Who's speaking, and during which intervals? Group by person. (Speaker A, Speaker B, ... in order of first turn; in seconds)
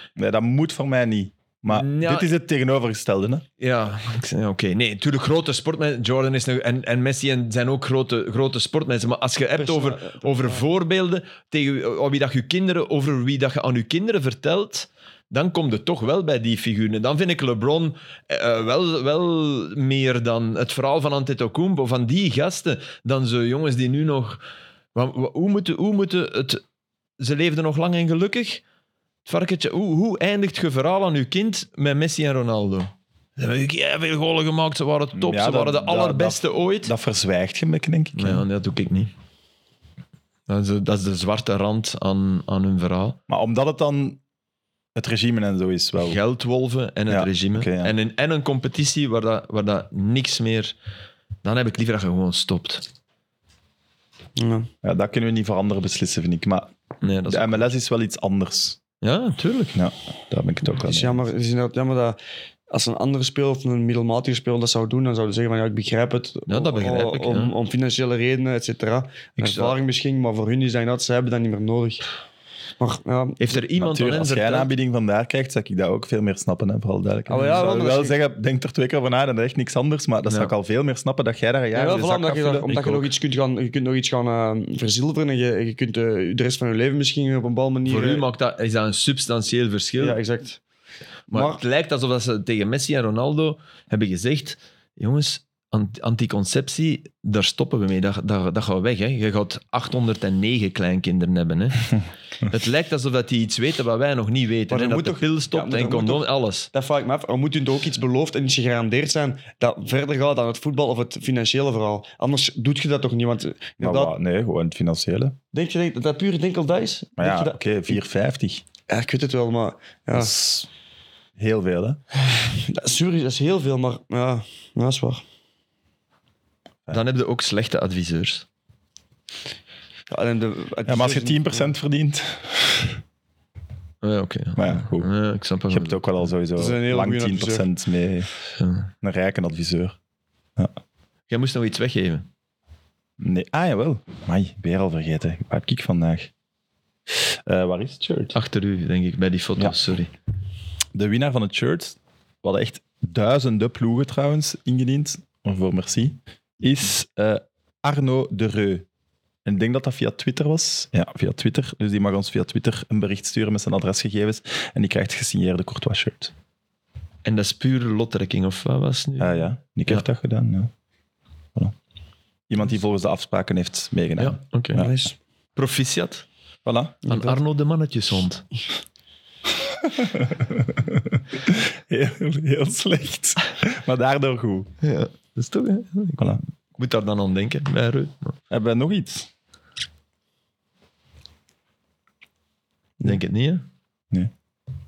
Speaker A: 0.2-3.4, 35.1-38.4, 43.3-44.2, 44.9-46.2, 47.1-47.9, 54.8-56.7, 57.3-58.8, 59.7-61.3, 73.8-83.1, 113.8-115.3, 117.2-118.6, 120.1-120.7, 121.4-122.0, 130.8-133.0, 134.6-135.1, 135.7-138.3, 139.0-139.9, 143.2-146.3, 147.1-148.3, 150.9-158.8, 159.4-166.3, 169.2-170.7, 172.5-174.9, 176.6-177.0, 179.8-184.7, 188.5-189.3
Speaker B: 1.7-2.3, 3.6-24.4, 24.9-26.6, 27.2-28.6, 29.2-36.9, 38.1-39.1, 40.5-43.2, 46.0-50.7, 51.4-52.8, 57.0-57.7, 59.0-59.8, 66.5-67.5, 69.4-69.8, 73.4-74.7, 80.3-80.5, 87.8-90.2, 91.3-106.7, 126.9-128.4, 134.0-136.0, 138.6-138.9, 141.3-142.3, 148.3-150.1, 167.2-170.0, 174.2-174.9, 175.6-176.2, 177.1-178.4, 184.8-188.3, 193.0-193.6
Speaker C: 9.6-10.6, 54.4-54.7, 60.8-62.2, 62.7-72.0, 72.8-73.4, 77.3-78.2, 81.7-88.2, 90.0-90.6, 91.3-91.6, 104.7-114.2, 115.5-118.0, 118.9-120.3, 122.3-125.2, 130.1-131.7, 136.6-137.7, 174.7-175.2, 177.0-177.4